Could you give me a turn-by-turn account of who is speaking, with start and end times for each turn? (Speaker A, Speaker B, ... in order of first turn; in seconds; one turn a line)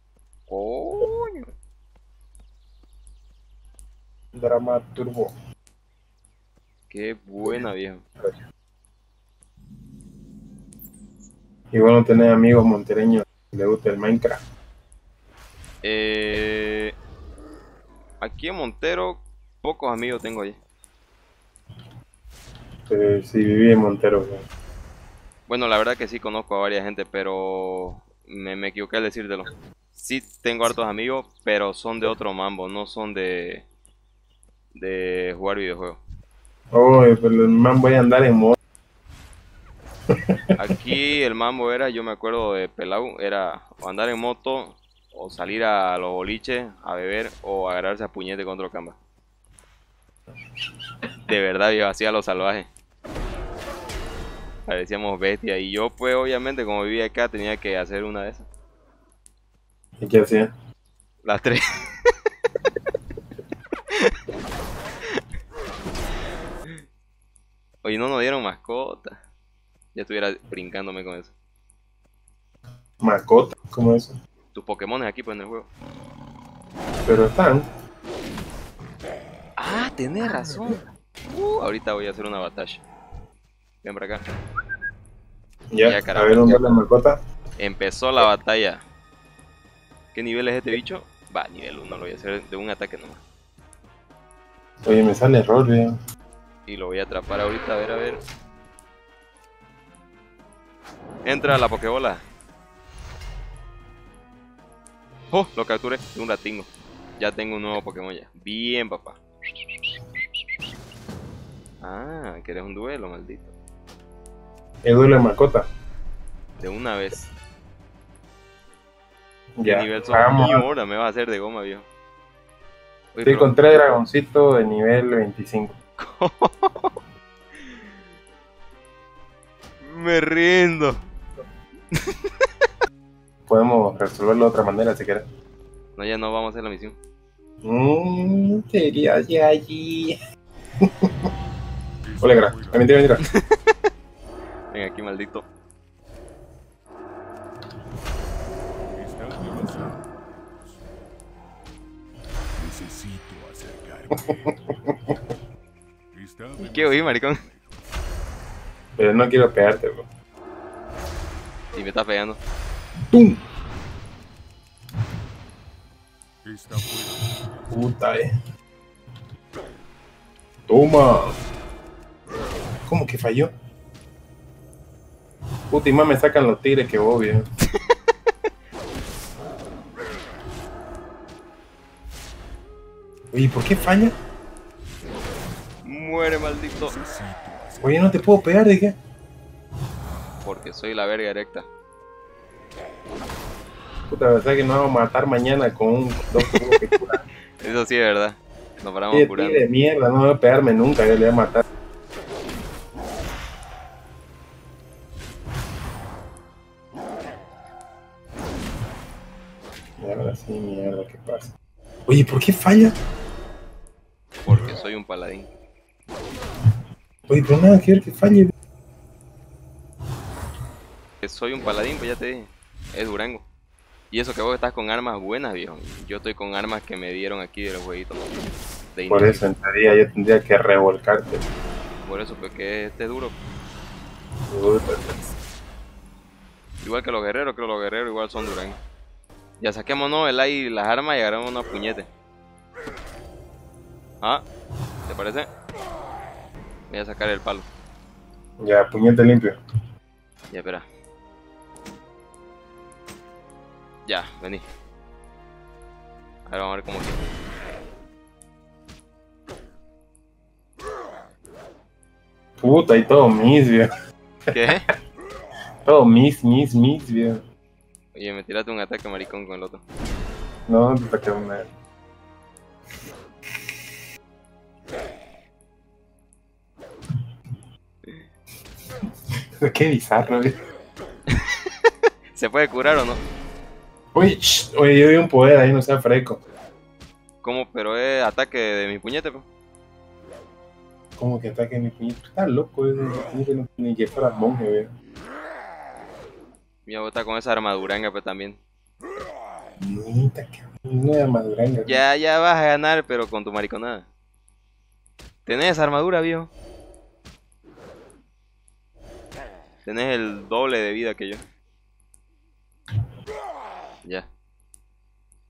Speaker A: 0.5-1.5
Speaker B: 4.3-5.3
Speaker A: 6.9-8.0
Speaker B: 11.7-14.4
Speaker A: 15.8-16.9
Speaker A: 18.2-20.6
Speaker B: 22.9-24.4
Speaker A: 25.5-33.6
Speaker A: 34.8-36.0
Speaker B: 36.7-38.5
Speaker A: 40.6-49.0
Speaker A: 51.3-52.7
Speaker A: 54.7-58.5
Speaker B: 60.0-60.5
Speaker A: 61.2-62.1
Speaker A: 67.8-69.2
Speaker A: 69.9-71.3
Speaker B: 73.0-74.2
Speaker A: 74.5-75.7
Speaker B: 77.0-77.7
Speaker A: 79.6-82.8
Speaker A: 83.8-84.2
Speaker B: 85.7-87.2
Speaker A: 85.8-86.7
Speaker A: 87.6-88.8
Speaker A: 90.1-93.2
Speaker B: 94.8-95.9
Speaker A: 96.7-98.2
Speaker A: 101.2-102.2
Speaker A: 105.3-109.2
Speaker A: 111.8-113.5
Speaker B: 114.8-115.7
Speaker A: 116.6-117.3
Speaker B: 119.6-120.7
Speaker A: 119.6-121.9
Speaker A: 123.1-123.9
Speaker B: 123.2-125.7
Speaker A: 126.0-126.9
Speaker A: 129.8-131.0
Speaker A: 131.9-132.5
Speaker B: 133.5-135.3
Speaker A: 135.9-137.0
Speaker B: 137.6-140.1
Speaker B: 141.0-141.3
Speaker C: 142.0-142.9
Speaker B: 142.2-143.2
Speaker A: 144.7-145.5
Speaker C: 148.9-150.8
Speaker C: 152.5-154.5
Speaker B: 154.3-155.3
Speaker C: 156.1-157.7
Speaker A: 156.6-157.4
Speaker B: 159.0-160.1
Speaker A: 161.7-162.4
Speaker B: 163.1-163.4
Speaker C: 166.4-167.6
Speaker B: 167.7-168.3
Speaker B: 170.7-171.3
Speaker B: 172.8-173.5
Speaker B: 175.7-177.4
Speaker B: 183.3-184.1
Speaker A: 185.8-187.0
Speaker C: 186.9-188.3
Speaker B: 187.8-189.0
Speaker A: 190.4-191.7
Speaker B: 194.1-197.2
Speaker A: 197.6-199.6
Speaker B: 199.1-201.6
Speaker B: 210.0-211.5
Speaker B: 212.1-212.9
Speaker A: 214.4-215.5
Speaker B: 217.3-218.5
Speaker A: 221.2-223.4
Speaker A: 224.1-228.3
Speaker A: 228.9-229.4
Speaker B: 229.1-231.4
Speaker A: 232.0-233.4
Speaker B: 234.5-235.3
Speaker A: 236.8-238.8
Speaker A: 239.6-242.1
Speaker A: 245.1-245.5
Speaker A: 246.9-247.7
Speaker B: 248.6-249.6
Speaker A: 250.5-250.8
Speaker A: 254.1-254.7
Speaker A: 256.4-257.2
Speaker B: 262.6-263.9
Speaker A: 264.5-264.8
Speaker B: 265.8-267.4
Speaker A: 268.1-269.8
Speaker B: 270.7-271.7
Speaker B: 279.6-280.6
Speaker A: 281.3-283.2
Speaker B: 284.1-286.4
Speaker A: 287.4-289.5
Speaker B: 291.2-294.9
Speaker A: 296.9-298.6
Speaker B: 299.8-302.0
Speaker A: 301.9-304.1
Speaker A: 305.4-306.5
Speaker A: 309.8-311.4